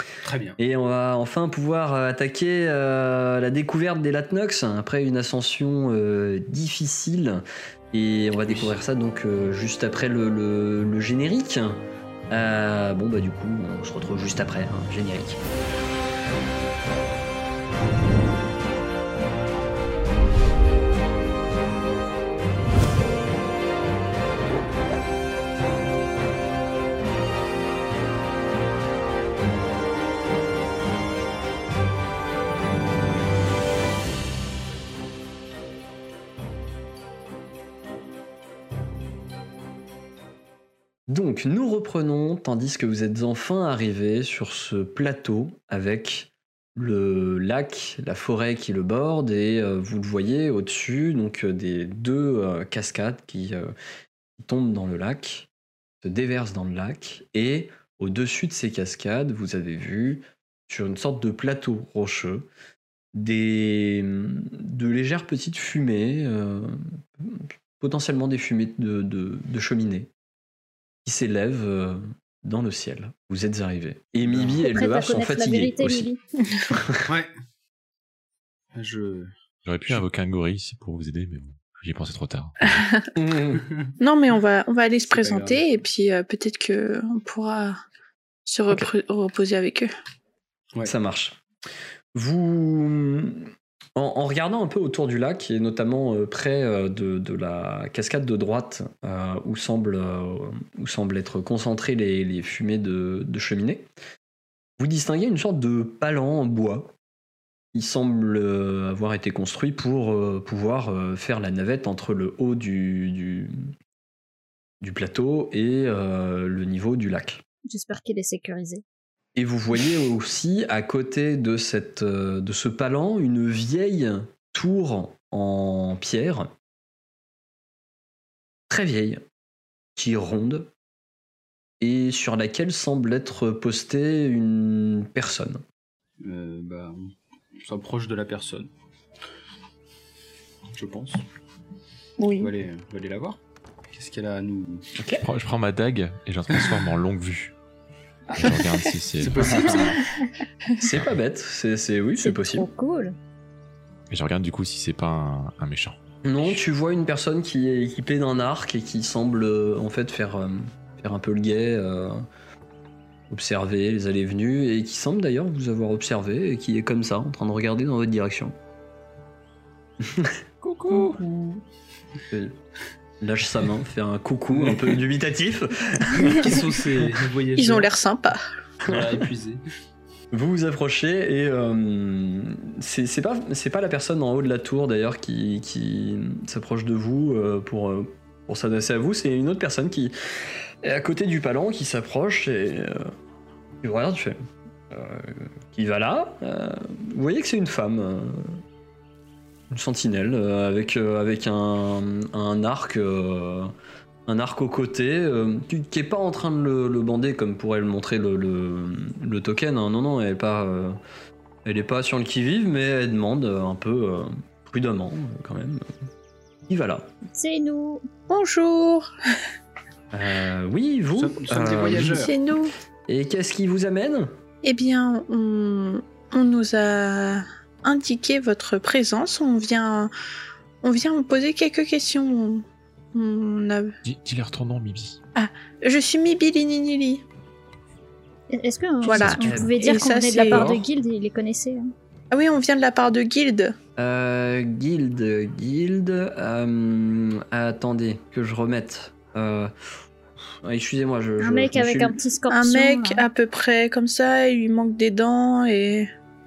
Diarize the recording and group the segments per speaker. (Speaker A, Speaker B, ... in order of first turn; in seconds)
Speaker A: 0.2-0.6, 8.3-8.8, 77.1-77.3, 78.7-79.3, 85.1-85.7, 136.2-138.7, 140.7-141.2, 142.4-144.9, 148.4-150.0, 174.5-175.0, 176.2-177.9, 178.9-179.6, 221.2-222.3
Speaker B: 0.6-11.8, 12.3-15.4, 41.1-53.7, 54.4-55.5, 56.0-62.5, 63.1-70.1, 71.0-76.1, 76.7-77.1, 83.2-83.6, 90.8-91.4, 92.2-103.9, 104.8-106.9, 107.7-113.5, 114.8-117.4, 119.4-126.5, 128.7-129.2, 130.0-130.7, 131.8-135.6, 145.0-145.2, 150.8-152.7, 156.2-162.2, 163.3-168.6, 170.0-171.6, 172.3-172.6, 173.2-176.6, 180.3-190.1, 190.8-193.1, 193.8-194.4, 194.9-198.6, 199.7-203.7, 204.3-211.0, 211.7-215.8, 216.7-217.1, 220.1-222.2, 223.1-224.3, 239.2-239.8, 240.5-240.8, 244.0-249.7, 250.6-252.2
Speaker C: 74.6-76.2, 117.7-118.8, 152.2-153.2, 217.4-218.0, 238.5-241.9, 251.4-253.2
Speaker D: 79.7-82.8, 145.1-147.5, 148.4-149.8, 154.1-156.0, 234.0-235.2
Speaker E: 82.7-83.1, 84.0-87.8, 88.5-89.9, 142.2-142.5, 177.6-178.4, 218.3-219.1, 222.1-222.7, 224.6-230.1, 230.8-234.0, 235.3-237.2, 239.0-240.8, 242.3-243.8, 252.5-256.1